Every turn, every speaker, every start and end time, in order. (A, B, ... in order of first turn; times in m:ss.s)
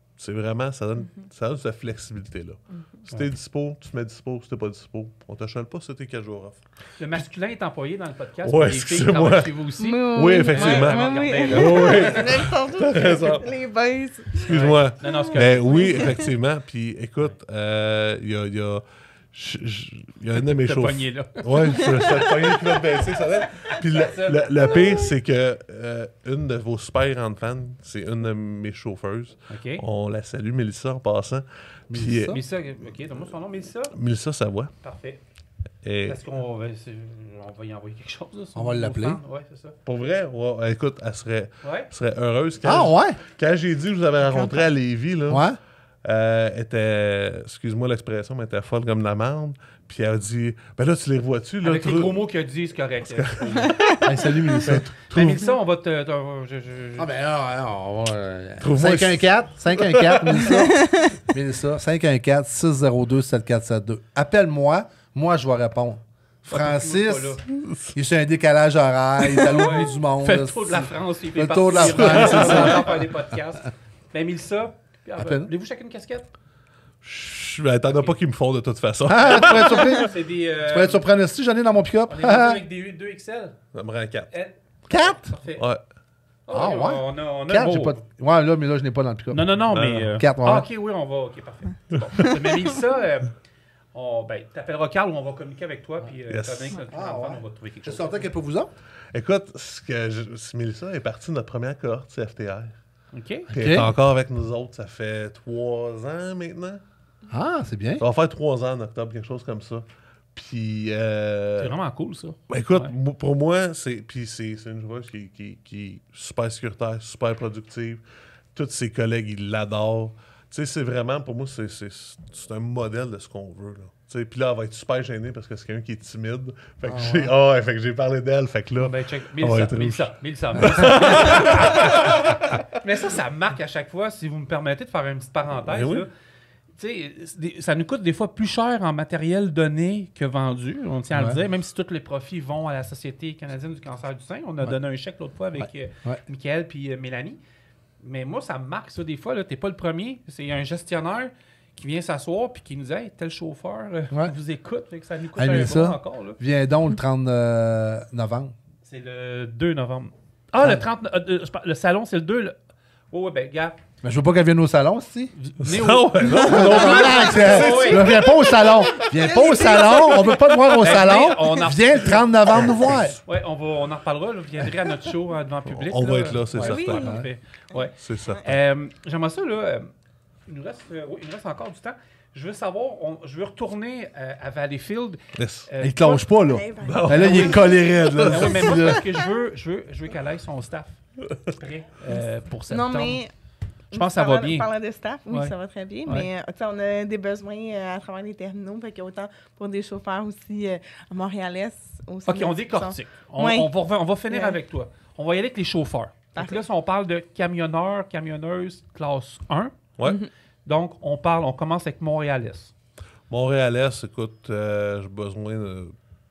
0:00.2-0:07.2 A
0:07.0-0:12.2 B
0:08.4-0:13.5 A
0:09.8-0:14.5 C
0:14.4-0:34.7 A
0:14.5-0:16.0 B
0:15.1-0:16.3 C
0:20.5-0:21.9 B
0:23.9-0:24.8 B
0:29.5-0:29.8 B
0:31.9-0:32.4 D
0:32.3-0:33.9 B
0:34.8-0:35.2 B
0:35.8-0:36.2 A
0:36.1-0:39.8 B
0:38.6-0:39.2 D
0:39.9-0:45.5 A
0:41.6-0:41.9 B
0:42.6-0:43.2 D
0:44.2-0:44.6 C
0:45.3-0:45.6 D
0:46.0-0:52.3 A
0:51.6-0:53.4 B
0:53.0-0:53.8 A
0:54.0-0:54.9 D
0:54.6-0:55.4 A
0:55.1-0:57.1 B
0:57.0-1:13.0 D
0:58.6-1:00.5 A
1:06.5-1:07.4 B
1:07.6-1:08.0 A
1:09.4-1:16.3 B
1:11.8-1:12.8 A
1:15.2-1:15.5 D
1:17.0-1:20.1 A
1:19.1-1:22.6 D
1:19.9-1:21.0 B
1:22.1-1:23.6 B
1:23.7-1:24.3 A
1:24.3-1:25.6 B
1:24.9-1:25.3 D
1:25.6-1:25.8 A
1:26.5-1:28.0 B
1:26.5-1:30.7 D
1:29.3-1:33.4 B
1:29.7-1:30.1 A
1:33.9-1:38.2 B
1:36.3-1:36.8 A
1:36.9-1:38.7 D
1:39.1-1:42.7 A
1:43.1-1:43.5 B
1:43.5-1:43.9 D
1:43.5-1:46.8 A
1:47.3-1:48.0 D
1:48.0-1:51.7 A
1:51.6-1:52.9 B
1:52.5-1:58.0 A
1:58.5-2:12.6 A
2:06.9-2:07.3 D
2:08.8-2:16.1 B
2:10.6-2:10.9 D
2:15.5-2:16.1 A
2:16.8-2:27.4 B
2:21.1-2:21.4 D
2:25.6-2:26.2 D
2:28.0-2:36.4 B
2:35.4-2:38.5 D
2:38.8-2:42.6 B
2:40.6-2:40.8 D
2:43.1-2:43.8 B
2:44.0-2:45.3 D
2:45.3-2:48.5 B
2:45.6-2:49.0 A
2:46.4-2:53.2 D
2:49.1-2:50.6 C
2:50.8-2:52.2 B
2:52.5-2:53.2 A
2:53.3-2:59.9 B
2:55.7-2:57.2 A
2:56.0-2:58.5 C
2:57.0-2:57.3 D
2:58.0-2:58.4 A
3:00.5-3:06.0 B
3:05.4-3:05.7 A
3:05.8-3:09.0 D
3:06.0-3:08.9 C
3:06.8-3:08.8 A
3:07.2-3:07.6 B
3:08.3-3:13.2 B
3:12.7-3:13.3 C
3:13.9-3:14.7 B
3:13.9-3:23.7 C
3:22.3-3:29.8 B
3:24.3-3:24.6 C
3:30.0-3:30.3 C
3:30.6-3:32.7 B
3:33.3-3:36.0 A